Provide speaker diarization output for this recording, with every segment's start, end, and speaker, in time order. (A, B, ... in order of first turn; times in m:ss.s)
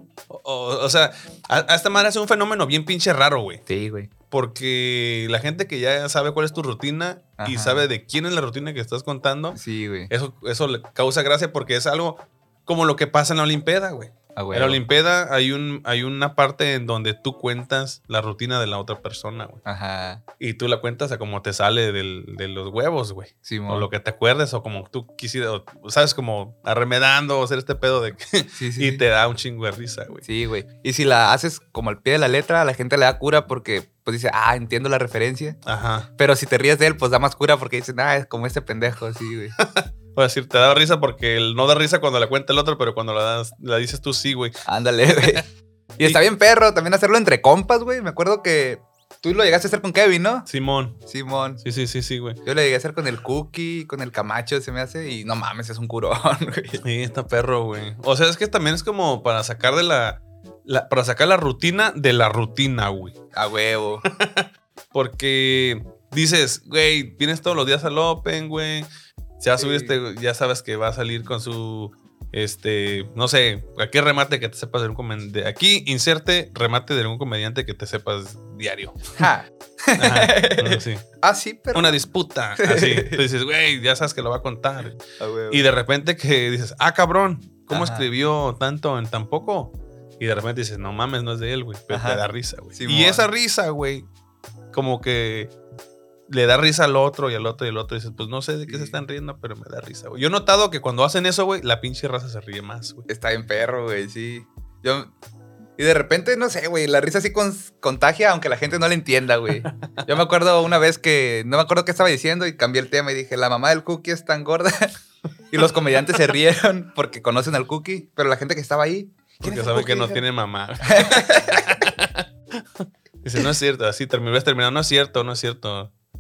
0:00.3-0:03.6 A
0:03.7-0:04.1 B
0:04.3-0:09.6 A
0:07.4-0:07.9 B
0:09.5-0:10.1 B
0:10.1-0:19.6 A
0:14.4-0:14.8 B
0:19.6-0:20.2 B
0:20.4-0:30.2 A
0:23.4-0:23.9 B
0:28.6-0:29.0 B
0:30.2-0:35.6 B
0:35.7-0:36.1 A
0:36.2-0:39.6 B
0:39.6-0:44.6 A
0:44.7-0:45.5 B
0:46.0-0:50.5 B
0:50.5-0:51.0 A
0:51.1-0:51.6 B
0:51.6-0:52.4 A
0:52.4-0:56.8 B
0:56.8-1:03.2 A
1:03.3-1:04.0 B
1:04.1-1:08.9 A
1:09.4-1:19.2 A
1:09.6-1:10.0 B
1:19.2-1:22.0 B
1:20.0-1:21.0 A
1:21.7-1:25.0 A
1:22.6-1:23.2 B
1:25.2-1:25.7 B
1:25.5-1:34.1 A
1:27.7-1:28.1 B
1:31.9-1:33.3 B
1:34.7-1:35.5 A
1:36.3-1:43.1 A
1:38.7-1:39.0 B
1:43.1-1:45.1 B
1:45.8-1:55.0 B
1:49.6-1:50.0 A
1:55.5-2:00.2 B
1:59.4-2:05.9 A
2:00.9-2:01.6 B